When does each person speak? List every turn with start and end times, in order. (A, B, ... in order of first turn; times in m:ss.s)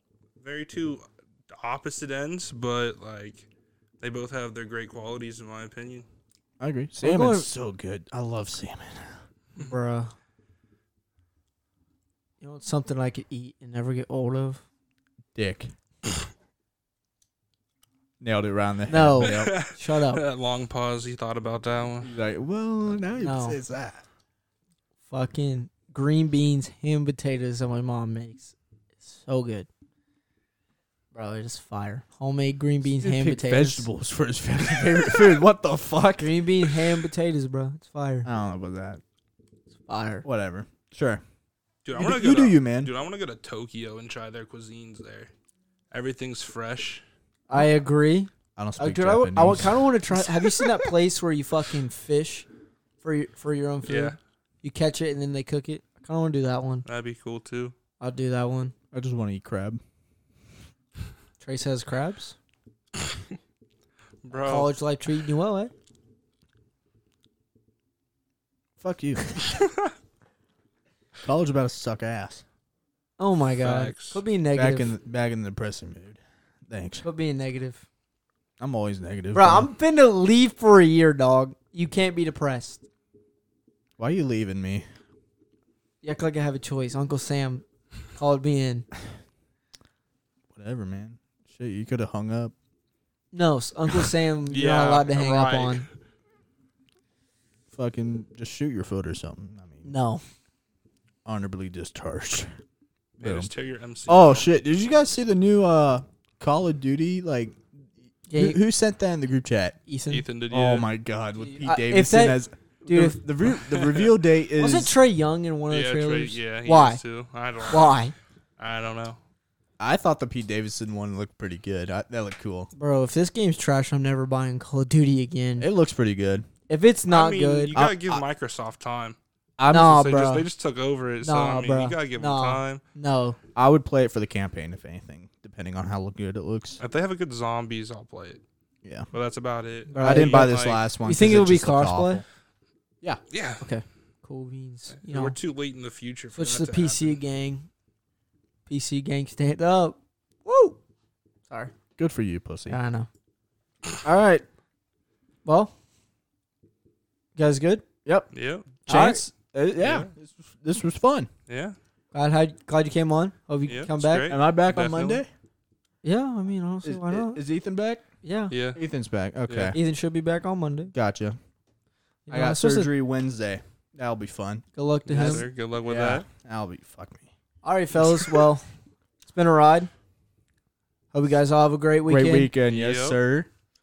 0:00.4-0:03.5 A
0:04.0-0:06.0 A
0:06.6-0:09.2 B
0:07.0-0:07.5 C
0:09.6-0:10.1 C
0:12.4-0:14.6 C
0:15.4-0:15.7 B
0:18.2-0:19.5 B
0:18.9-0:20.2 C
0:19.2-0:22.1 A
0:22.0-0:24.0 B
0:23.2-0:23.6 C
0:25.1-0:29.7 C
0:31.1-0:33.9 C
0:33.0-0:36.7 B
0:36.2-0:38.3 C
0:38.2-0:39.0 B
0:39.9-0:40.3 C
0:40.2-0:41.2 B
0:41.8-0:45.3 A
0:42.0-0:42.9 B
0:45.9-0:47.0 A
0:47.5-0:52.5 C
0:48.6-0:49.8 B
0:53.0-0:56.8 C
0:53.9-0:54.2 A
0:56.8-0:57.7 A
0:58.0-0:58.7 C
0:58.9-0:59.8 B
1:01.4-1:02.4 C
1:04.2-1:04.7 A
1:04.4-1:05.7 C
1:08.8-1:09.4 B
1:11.2-1:12.4 B
1:13.2-1:14.9 C
1:13.6-1:14.2 A
1:14.5-1:17.0 B
1:17.0-1:17.8 C
1:18.6-1:19.7 B
1:19.3-1:22.8 C
1:24.0-1:24.8 B
1:26.0-1:27.6 C
1:28.2-1:28.9 C
1:30.5-1:32.5 B
1:33.3-1:35.9 C
1:34.5-1:35.9 A
1:37.7-1:39.9 B
1:39.8-1:40.2 C
1:41.2-1:42.5 B
1:43.2-1:44.5 A
1:43.2-1:43.5 B
1:44.1-1:47.6 B
1:48.3-1:48.6 C
1:48.3-1:49.8 B
1:49.9-1:50.2 C
1:50.1-1:50.9 A
1:50.5-1:55.0 B
1:51.6-1:53.2 C
1:53.7-1:54.1 A
1:54.6-1:57.0 C
1:55.7-1:58.0 A
1:57.7-1:58.1 C
1:58.6-1:59.2 A
1:59.8-2:02.7 B
2:02.8-2:05.7 C
2:05.6-2:06.5 B
2:06.7-2:07.8 C
2:07.1-2:09.2 A
2:07.7-2:08.2 B
2:09.6-2:10.1 B
2:09.7-2:10.4 C
2:09.8-2:12.8 A
2:11.2-2:13.4 C
2:13.6-2:16.8 B
2:16.8-2:18.4 A
2:19.1-2:20.9 A
2:19.9-2:22.2 C
2:20.0-2:22.2 B
2:23.3-2:23.6 A
2:23.6-2:25.4 C
2:25.0-2:27.2 A
2:26.3-2:27.7 C
2:28.7-2:30.8 C
2:32.0-2:32.8 B
2:32.7-2:33.1 C
2:34.0-2:34.4 B
2:35.4-2:35.7 C
2:37.4-2:37.8 C
2:38.3-2:38.7 A
2:38.9-2:41.3 B
2:38.9-2:39.2 C
2:39.8-2:40.1 A
2:41.5-2:41.8 A
2:42.1-2:44.3 C
2:43.7-2:45.2 A
2:44.3-2:45.3 B
2:46.0-2:47.4 C
2:46.8-2:48.0 B
2:48.2-2:48.5 C
2:48.5-2:48.8 A
2:48.8-2:49.8 B
2:49.5-2:49.8 A
2:49.7-2:50.9 C
2:50.9-2:51.4 B
2:52.3-2:52.9 C
2:52.3-2:57.3 B
2:54.8-2:55.5 C
2:55.1-2:56.3 A
2:57.6-2:58.7 C
2:59.2-2:59.9 C
3:01.1-3:02.5 C
3:02.1-3:03.5 B
3:02.6-3:03.2 A